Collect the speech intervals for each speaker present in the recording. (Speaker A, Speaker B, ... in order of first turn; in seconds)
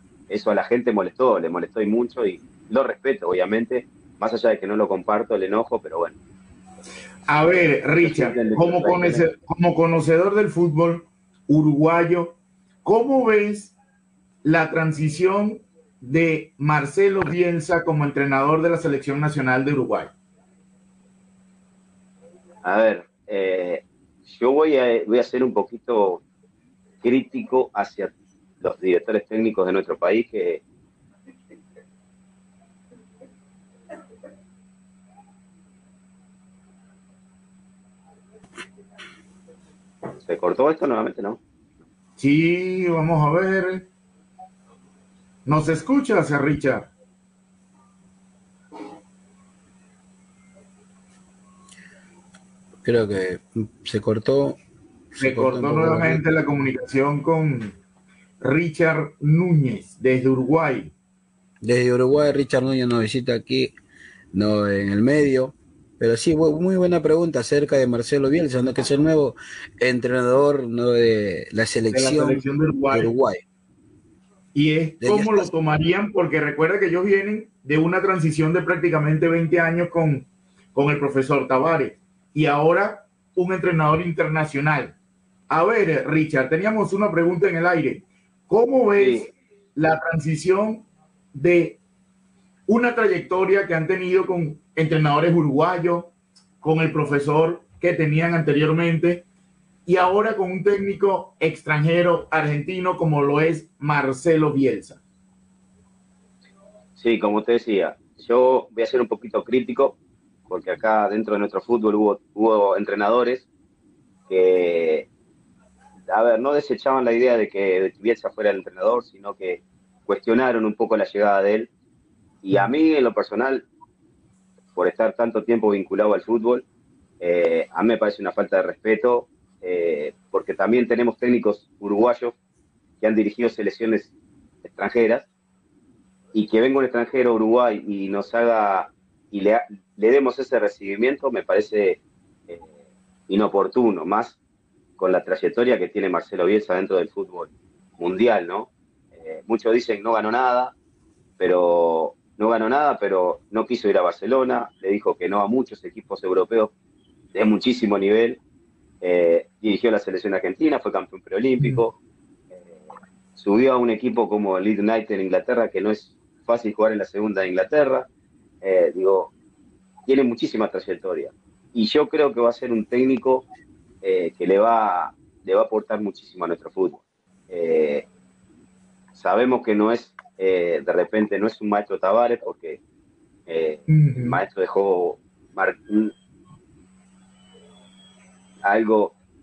Speaker A: 0.3-6.2, 8.0-9.2, 22.6-26.2, 27.0-30.6, 40.3-41.4, 89.0-89.3, 107.0-110.0, 110.5-113.5, 114.3-115.1, 116.1-121.7, 122.4-123.7, 124.8-126.7, 127.2-132.3, 133.0-134.1, 134.6-135.3, 136.3-142.7, 143.3-144.4, 145.0-150.7, 151.4-156.7, 157.3-158.4, 159.0-161.9, 162.6-162.8, 163.4-168.1, 168.6-169.3, 170.1-173.4, 174.0-178.1, 179.2-182.8, 183.5-186.1, 188.7-189.1
Speaker B: 7.3-13.8, 14.4-20.1, 42.2-43.9, 45.5-46.9, 55.2-57.8, 58.4-60.9, 71.9-73.1, 74.5-84.9, 85.5-91.8, 92.7-99.2, 99.9-105.0, 183.9-184.4
Speaker C: 52.8-54.6, 55.1-56.2, 61.6-63.7, 64.3-73.4, 75.0-75.5